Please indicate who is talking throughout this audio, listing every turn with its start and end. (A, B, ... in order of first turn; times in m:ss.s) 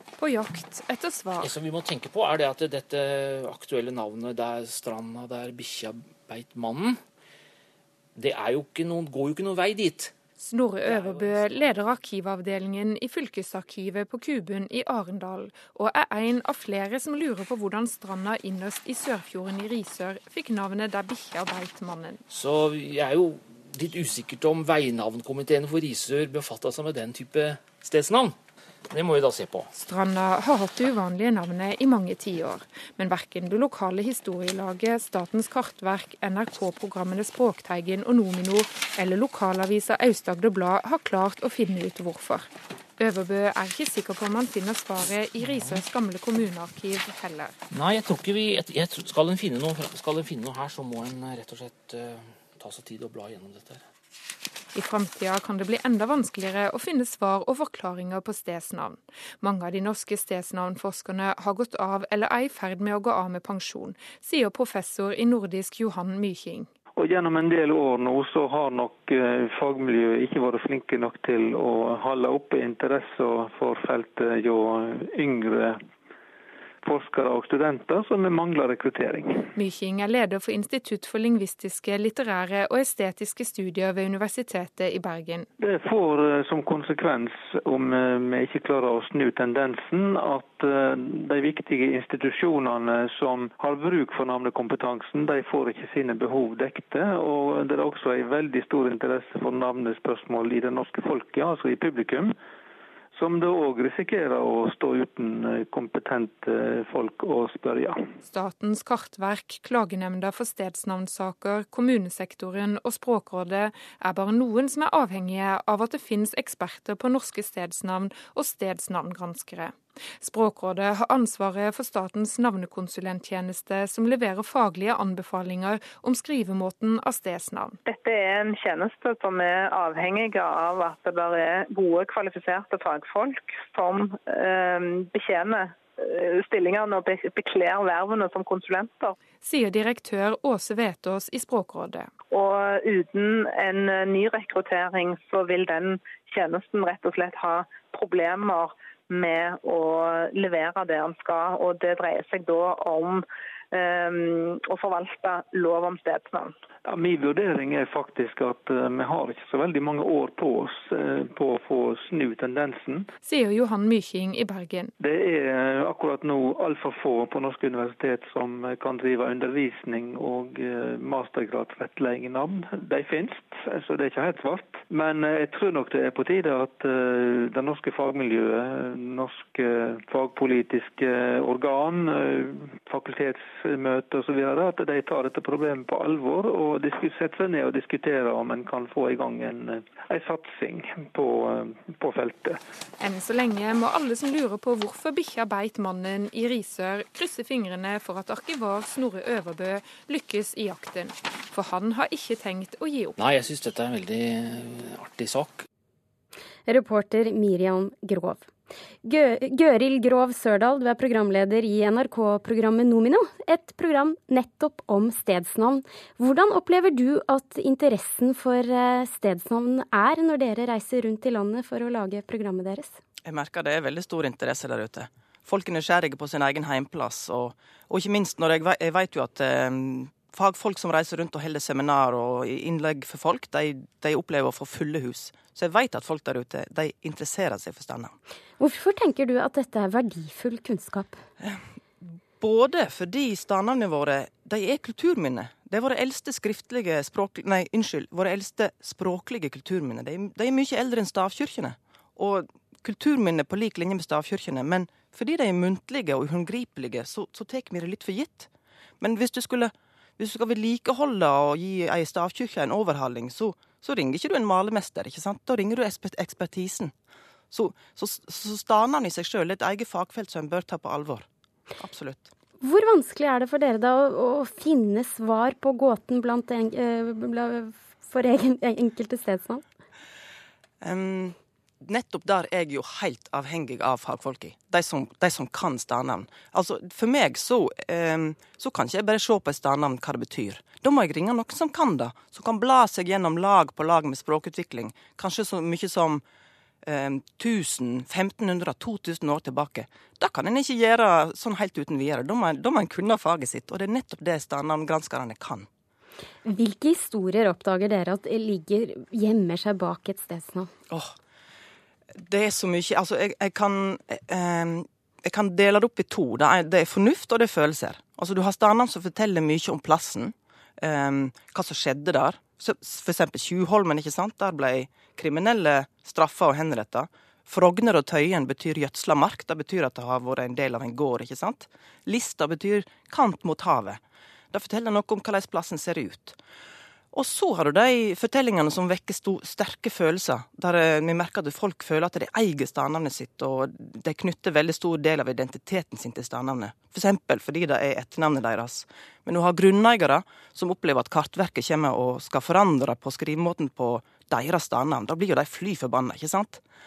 0:00.2-0:01.5 A
0:01.4-0:07.0 B
0:08.2-0:10.1 B
0:10.4-0:22.2 A
0:10.8-0:11.7 B
0:22.3-0:28.4 B
0:28.9-0:29.7 B
0:29.8-0:47.5 A
0:45.4-0:45.8 B
0:47.7-0:53.8 B
0:54.8-1:06.7 A
1:07.0-1:15.8 C
1:16.8-1:19.5 C
1:19.6-1:25.5 A
1:25.6-1:42.3 C
1:43.1-1:48.0 C
1:48.3-2:07.8 A
2:07.8-2:19.2 D
2:19.4-2:22.1 A
2:22.3-2:36.6 D
2:36.8-2:43.1 C
2:43.2-2:44.9 A
2:45.0-3:12.6 C
3:13.0-3:23.2 A
3:23.2-3:25.7 B
3:26.7-3:28.5 E
3:29.0-3:43.0 E
3:43.2-3:58.1 F
3:58.6-4:01.2 E
4:02.4-4:18.5 F
4:19.0-4:26.9 F
4:27.5-4:31.3 F
4:31.8-4:32.3 F
4:32.6-4:39.6 E
4:40.8-4:56.2 F
4:56.8-5:05.7 F
5:06.4-5:10.7 E
5:10.9-5:11.2 F
5:12.2-5:34.0 F
5:34.5-5:36.4 F
5:37.1-5:56.6 F